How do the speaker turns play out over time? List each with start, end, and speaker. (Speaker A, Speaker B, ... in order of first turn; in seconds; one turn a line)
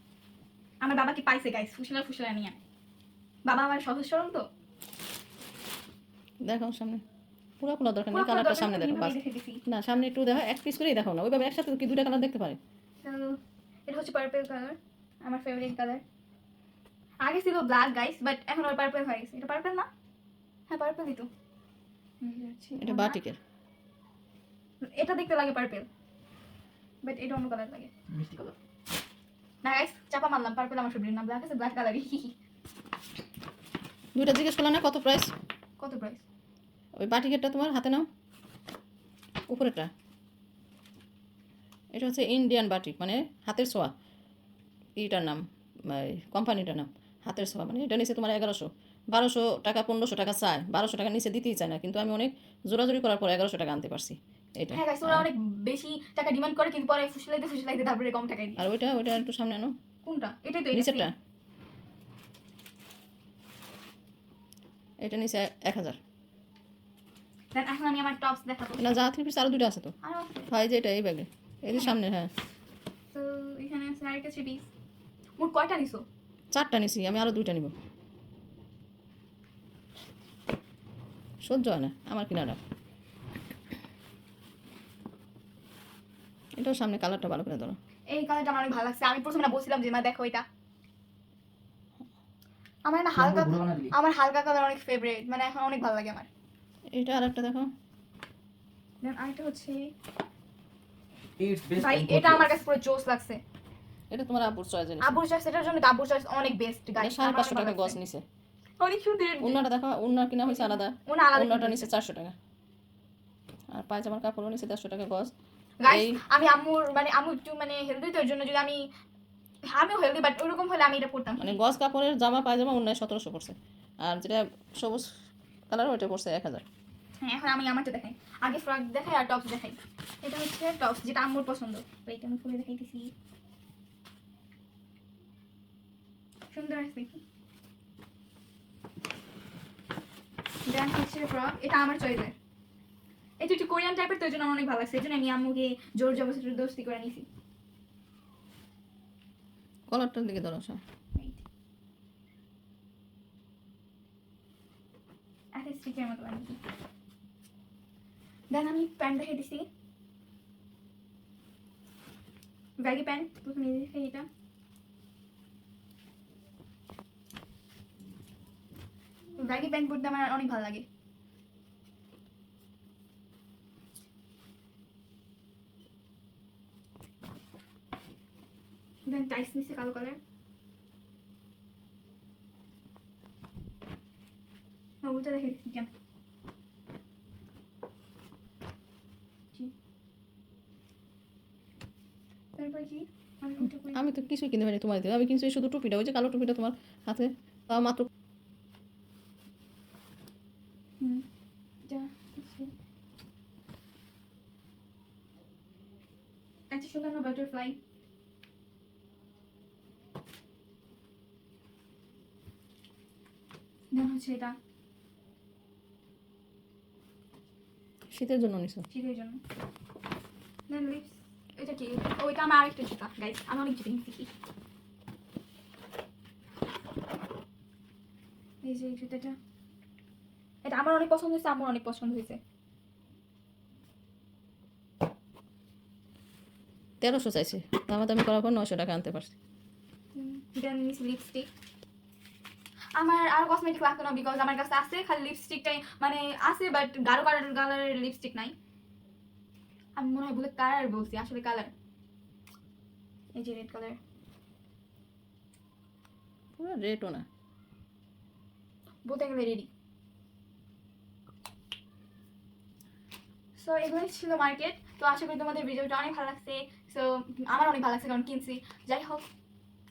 Speaker A: 0.8-2.6
Speaker A: 3.4-4.4
Speaker B: 6.4-7.0
Speaker B: 7.6-12.6
Speaker A: 8.1-9.6
Speaker A: 13.0-16.0
Speaker A: 17.2-19.9
Speaker A: 20.7-21.3
Speaker A: 22.2-23.2
Speaker B: 22.8-23.4
Speaker A: 24.8-25.9
Speaker A: 27.0-27.9
Speaker C: 28.1-28.5
Speaker A: 29.6-32.3
Speaker B: 34.1-35.3
Speaker A: 35.8-36.2
Speaker B: 37.0-38.0
Speaker B: 39.5-39.9
Speaker B: 41.9-43.9
Speaker B: 45.0-55.3
Speaker A: 54.7-58.6
Speaker B: 58.6-59.7
Speaker A: 60.0-61.1
Speaker B: 60.7-61.1
Speaker B: 65.0-66.0
Speaker A: 67.5-68.8
Speaker B: 68.8-69.9
Speaker A: 70.0-70.5
Speaker B: 70.5-72.3
Speaker A: 73.1-74.7
Speaker A: 75.4-76.0
Speaker B: 76.5-77.7
Speaker B: 81.4-82.6
Speaker B: 86.6-87.8
Speaker A: 88.1-90.4
Speaker A: 92.8-96.3
Speaker C: 93.1-93.9
Speaker B: 96.9-97.7
Speaker A: 99.0-99.9
Speaker C: 101.4-102.6
Speaker A: 101.8-103.4
Speaker B: 104.1-105.1
Speaker A: 105.0-108.0
Speaker B: 107.0-108.2
Speaker A: 108.8-109.6
Speaker B: 109.4-112.3
Speaker A: 110.5-111.9
Speaker B: 113.7-115.3
Speaker A: 115.8-118.9
Speaker B: 115.9-116.2
Speaker A: 119.7-121.6
Speaker B: 121.4-125.1
Speaker B: 125.7-126.6
Speaker A: 127.2-133.1
Speaker A: 136.5-137.2
Speaker A: 140.7-142.3
Speaker A: 143.4-147.2
Speaker B: 149.9-150.8
Speaker A: 151.2-151.4
Speaker A: 155.5-156.6
Speaker A: 158.5-159.7
Speaker A: 162.8-164.3
Speaker A: 169.4-170.8
Speaker A: 179.1-180.2
Speaker A: 185.0-185.9
Speaker A: 192.6-194.1
Speaker B: 193.9-198.1
Speaker A: 201.0-201.2
Speaker A: 201.8-202.7
Speaker A: 206.7-207.8
Speaker A: 213.9-214.6
Speaker B: 218.1-218.8
Speaker A: 218.9-219.4
Speaker A: 220.7-224.3
Speaker A: 228.6-229.4
Speaker A: 230.6-232.4
Speaker B: 237.0-239.3
Speaker A: 240.1-241.5
Speaker A: 242.9-248.5
Speaker A: 250.0-251.7
Speaker A: 253.3-254.0
Speaker B: 256.6-257.2
Speaker A: 259.0-259.7
Speaker A: 263.6-269.2